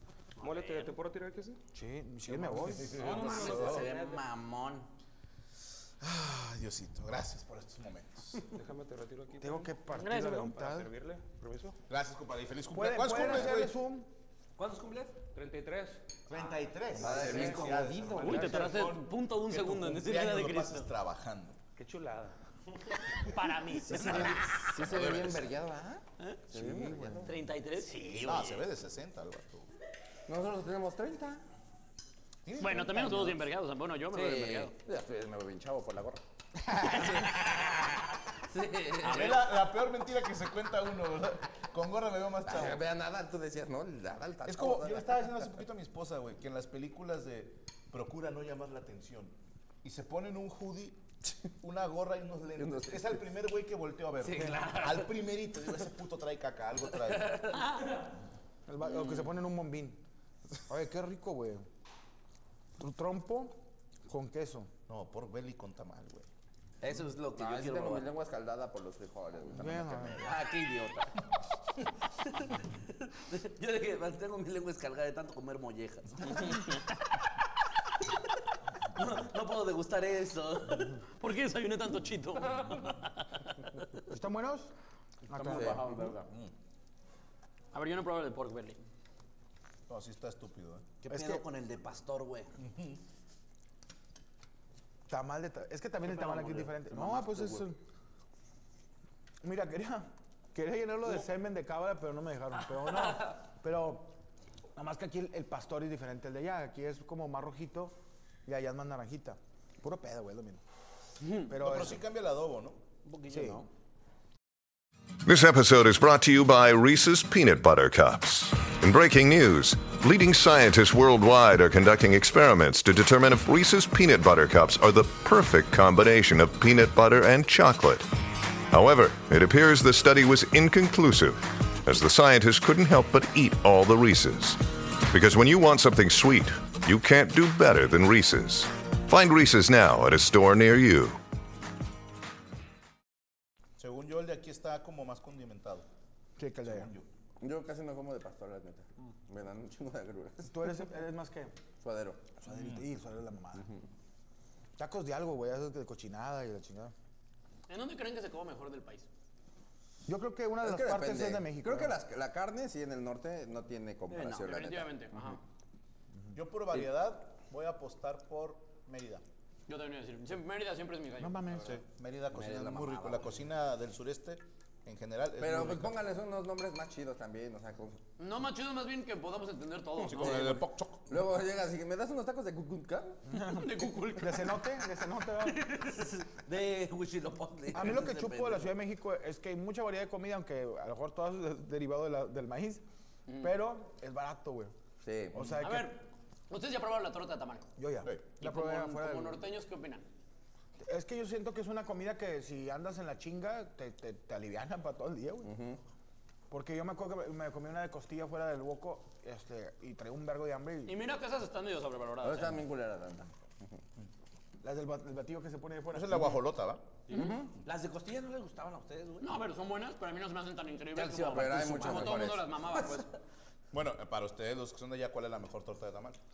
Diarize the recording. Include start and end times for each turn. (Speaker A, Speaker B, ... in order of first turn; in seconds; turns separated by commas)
Speaker A: 0.4-1.6, Speaker B: 0.4-0.9, Speaker C: 1.7-3.1, Speaker A: 2.3-4.2, Speaker D: 2.9-4.9, Speaker E: 3.2-3.8, Speaker E: 6.0-8.4, Speaker A: 8.5-11.8, Speaker C: 9.4-10.9, Speaker B: 9.9-10.5, Speaker E: 11.9-13.8, Speaker C: 12.7-14.1, Speaker D: 14.6-15.2, Speaker A: 15.3-16.0, Speaker E: 16.3-21.6, Speaker C: 16.9-18.1, Speaker F: 16.9-18.4, Speaker A: 17.3-18.6, Speaker D: 17.4-18.4, Speaker B: 18.2-20.9, Speaker A: 21.8-22.4, Speaker B: 23.2-24.7, Speaker F: 23.8-27.5, Speaker E: 24.0-25.5, Speaker C: 26.7-27.1, Speaker B: 27.2-28.6, Speaker E: 27.9-29.7, Speaker F: 30.3-31.4, Speaker E: 32.4-33.4, Speaker B: 32.6-34.7, Speaker F: 34.1-36.2, Speaker F: 36.8-37.4, Speaker F: 38.5-39.3, Speaker E: 39.0-42.9, Speaker B: 39.0-39.5, Speaker F: 42.4-45.2, Speaker E: 44.4-51.0, Speaker E: 51.6-57.6, Speaker F: 52.5-53.2, Speaker D: 54.2-55.1, Speaker B: 57.5-58.0, Speaker C: 58.7-60.0, Speaker C: 60.7-61.6, Speaker C: 62.8-64.7, Speaker E: 64.9-66.3, Speaker D: 66.8-68.1, Speaker F: 67.3-70.2, Speaker C: 69.5-70.3, Speaker D: 70.2-71.1, Speaker D: 73.1-76.5, Speaker D: 78.9-81.0, Speaker B: 81.2-83.5, Speaker C: 84.1-84.7, Speaker C: 85.3-86.0, Speaker D: 85.4-86.2, Speaker F: 85.5-86.0, Speaker B: 87.7-88.8, Speaker E: 89.9-90.9, Speaker D: 91.0-92.5, Speaker C: 91.1-91.4, Speaker E: 92.6-93.0, Speaker C: 95.1-97.8, Speaker D: 96.0-97.6, Speaker C: 99.4-104.1, Speaker C: 104.7-110.6, Speaker C: 111.5-112.0, Speaker E: 111.5-112.8, Speaker D: 113.0-113.7, Speaker C: 113.3-113.6, Speaker G: 115.2-128.1, Speaker G: 128.7-141.2, Speaker E: 143.8-145.8, Speaker C: 146.4-146.9, Speaker E: 146.6-147.1, Speaker F: 147.4-150.5, Speaker C: 150.4-151.6, Speaker F: 151.8-152.3, Speaker C: 152.4-153.7, Speaker E: 152.5-152.8, Speaker C: 154.8-156.9, Speaker B: 157.7-159.1, Speaker C: 160.1-162.0, Speaker F: 160.6-165.4, Speaker D: 164.1-164.6, Speaker B: 164.4-165.4, Speaker E: 166.3-169.2, Speaker B: 169.7-171.7, Speaker C: 171.2-171.8, Speaker E: 171.6-176.0, Speaker D: 172.4-173.4, Speaker F: 175.4-178.0, Speaker B: 178.2-180.6, Speaker F: 180.0-183.2, Speaker E: 180.1-181.2, Speaker C: 183.3-185.6, Speaker B: 183.5-184.7, Speaker D: 185.6-188.7, Speaker C: 187.7-192.8, Speaker B: 193.3-193.6, Speaker C: 193.4-194.7, Speaker F: 195.0-195.6, Speaker C: 195.3-195.9, Speaker B: 195.6-197.7, Speaker C: 197.8-199.4, Speaker B: 198.4-200.0, Speaker C: 200.8-205.5, Speaker F: 205.4-205.8, Speaker C: 206.5-211.0, Speaker B: 210.8-212.6, Speaker F: 212.2-213.8, Speaker C: 214.6-216.3, Speaker E: 215.9-216.8, Speaker F: 217.1-217.5, Speaker D: 217.6-219.4, Speaker B: 219.2-223.1, Speaker D: 220.9-222.3, Speaker F: 221.3-223.0, Speaker E: 223.7-226.2